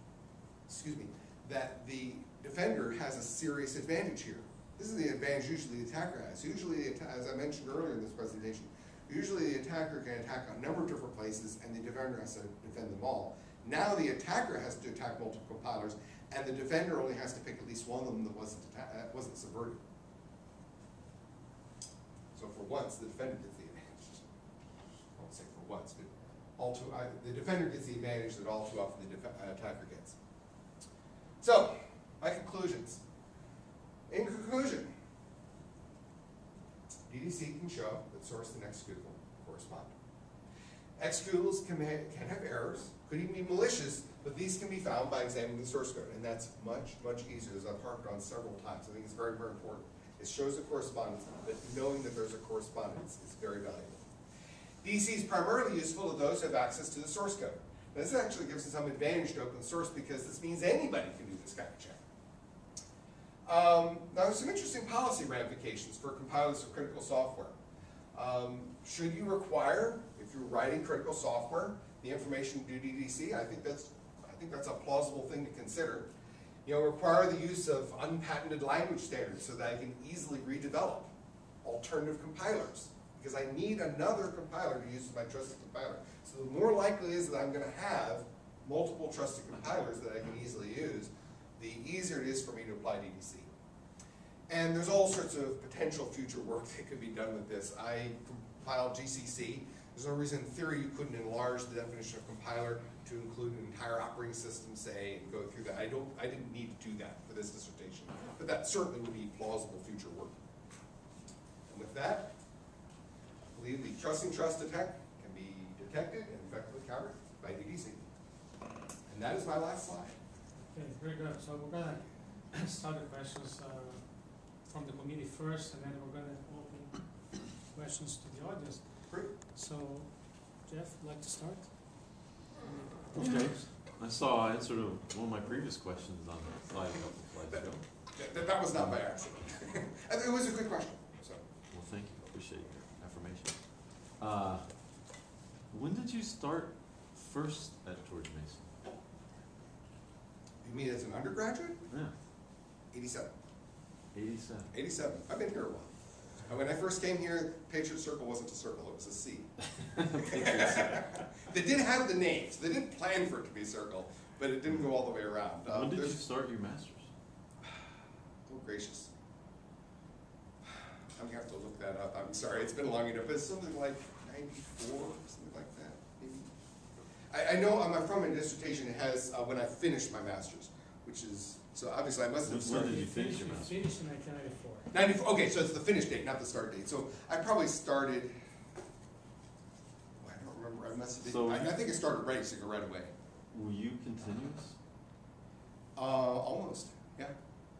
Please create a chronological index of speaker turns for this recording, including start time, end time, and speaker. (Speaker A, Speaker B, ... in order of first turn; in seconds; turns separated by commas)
Speaker A: 0.7-19.8, Speaker A: 22.3-24.3, Speaker A: 25.1-30.2, Speaker A: 31.4-33.0, Speaker A: 34.1-34.9, Speaker A: 37.1-40.0, Speaker A: 41.0-54.0, Speaker A: 54.8-62.0, Speaker A: 63.5-67.5, Speaker A: 68.1-76.1, Speaker A: 76.7-81.1, Speaker A: 81.6-93.5, Speaker A: 94.5-110.4, Speaker A: 111.7-112.3, Speaker A: 113.6-118.0, Speaker A: 119.1-120.2, Speaker B: 120.5-133.7, Speaker C: 133.1-137.8, Speaker A: 137.5-141.4, Speaker C: 138.7-139.0, Speaker C: 141.7-145.1, Speaker C: 145.7-148.9, Speaker A: 150.6-151.8, Speaker C: 151.9-152.2, Speaker A: 152.9-153.3, Speaker C: 154.1-154.8, Speaker A: 154.7-159.7, Speaker C: 160.0-161.2, Speaker A: 160.2-166.2, Speaker C: 165.7-167.1, Speaker A: 168.5-169.1, Speaker A: 170.6-176.5, Speaker A: 177.3-183.1, Speaker C: 182.4-183.8, Speaker B: 182.7-184.9, Speaker A: 184.9-188.3, Speaker A: 190.2-193.1, Speaker C: 191.2-191.8, Speaker C: 193.5-194.8, Speaker A: 196.0-197.3